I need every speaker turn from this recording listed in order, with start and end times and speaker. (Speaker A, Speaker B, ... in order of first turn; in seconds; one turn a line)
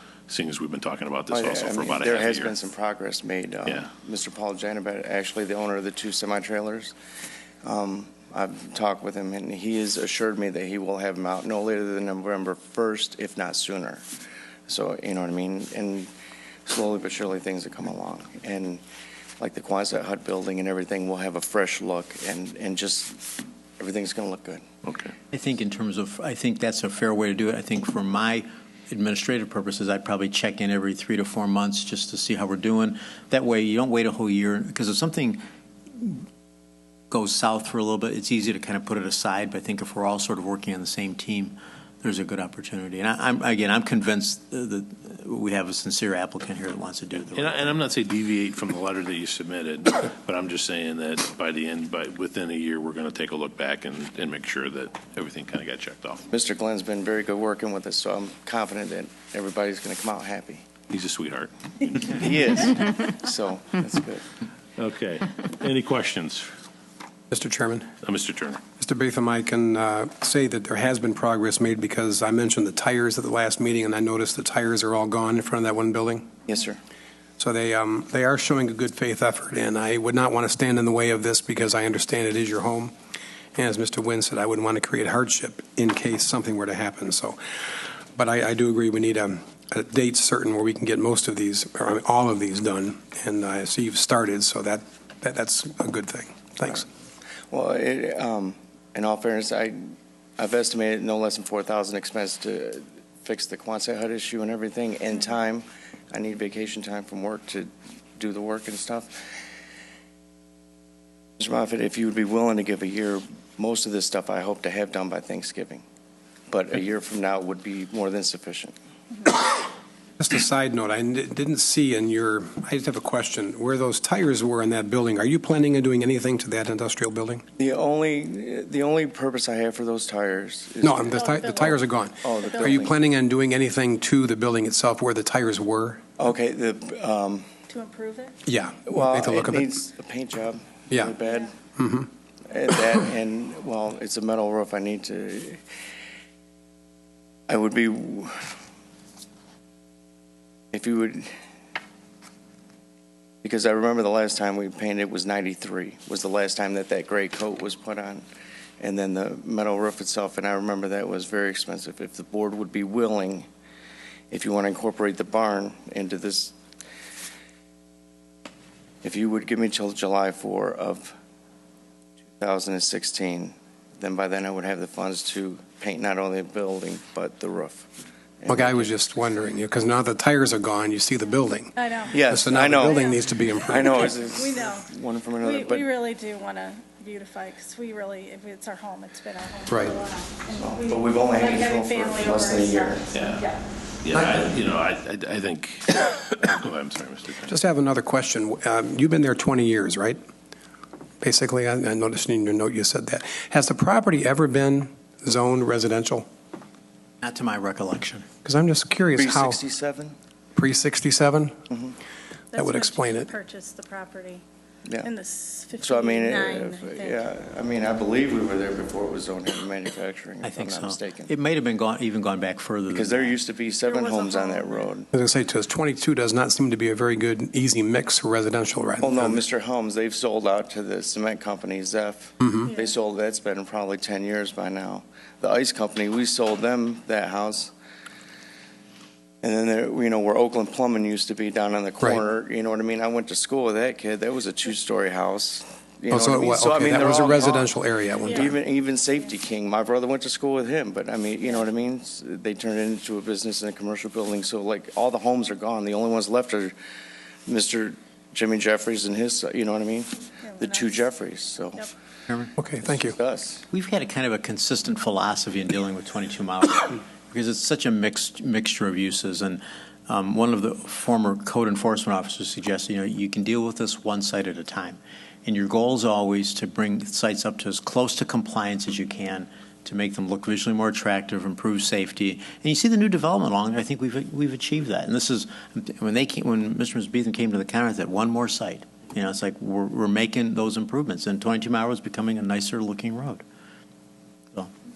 Speaker A: 0.3-2.5
Speaker B: 1.3-7.0
Speaker B: 7.6-14.1
Speaker B: 14.7-16.1
Speaker B: 16.7-18.8
Speaker B: 19.4-23.2
Speaker B: 23.8-24.6
Speaker A: 24.8-25.1
Speaker C: 25.3-35.4
Speaker C: 35.9-36.2
Speaker C: 37.1-47.8
Speaker A: 47.2-56.2
Speaker B: 56.3-60.6
Speaker A: 60.9-62.7
Speaker B: 62.2-64.2
Speaker A: 64.8-66.5
Speaker D: 67.3-67.9
Speaker A: 68.0-68.6
Speaker D: 68.8-76.3
Speaker B: 76.5-76.8
Speaker D: 77.4-82.9
Speaker D: 83.5-87.4
Speaker D: 88.2-96.9
Speaker B: 97.5-99.8
Speaker B: 100.4-109.2
Speaker B: 111.4-115.8
Speaker B: 116.5-118.8
Speaker D: 120.2-127.4
Speaker B: 127.6-133.0
Speaker D: 130.8-136.0
Speaker E: 131.1-131.8
Speaker E: 132.4-132.8
Speaker B: 136.2-137.5
Speaker E: 137.7-138.3
Speaker D: 138.4-139.7
Speaker B: 138.9-141.5
Speaker D: 140.9-141.2
Speaker D: 141.8-142.1
Speaker B: 142.5-145.6
Speaker B: 147.5-148.5
Speaker B: 150.7-151.3
Speaker B: 153.4-158.2
Speaker B: 158.8-163.5
Speaker B: 164.3-166.5
Speaker B: 169.0-171.2
Speaker B: 172.4-177.9
Speaker B: 178.4-179.0
Speaker D: 178.5-184.1
Speaker E: 181.8-182.2
Speaker B: 182.1-183.1
Speaker E: 182.9-183.2
Speaker B: 183.7-185.9
Speaker E: 183.9-193.6
Speaker D: 189.7-189.9
Speaker B: 190.5-193.1
Speaker A: 193.1-193.4
Speaker A: 194.0-197.6
Speaker D: 197.5-200.2
Speaker D: 201.2-206.3
Speaker C: 207.2-208.3
Speaker D: 208.4-209.6
Speaker B: 209.2-210.2
Speaker D: 210.6-211.6
Speaker B: 211.7-211.9
Speaker E: 212.5-214.4
Speaker D: 212.6-213.3
Speaker B: 214.8-215.1
Speaker E: 215.0-217.3
Speaker B: 215.8-221.3
Speaker C: 220.4-223.4
Speaker B: 222.9-225.1
Speaker E: 223.8-224.9
Speaker D: 225.1-229.4
Speaker B: 229.0-237.7
Speaker D: 232.4-232.7
Speaker E: 232.7-232.9
Speaker B: 239.4-247.7
Speaker D: 246.1-248.6
Speaker E: 248.2-248.5
Speaker B: 248.3-256.8
Speaker B: 257.5-261.9
Speaker E: 260.4-261.1
Speaker C: 262.3-262.5
Speaker D: 262.6-263.2
Speaker B: 262.9-263.6
Speaker C: 263.7-293.4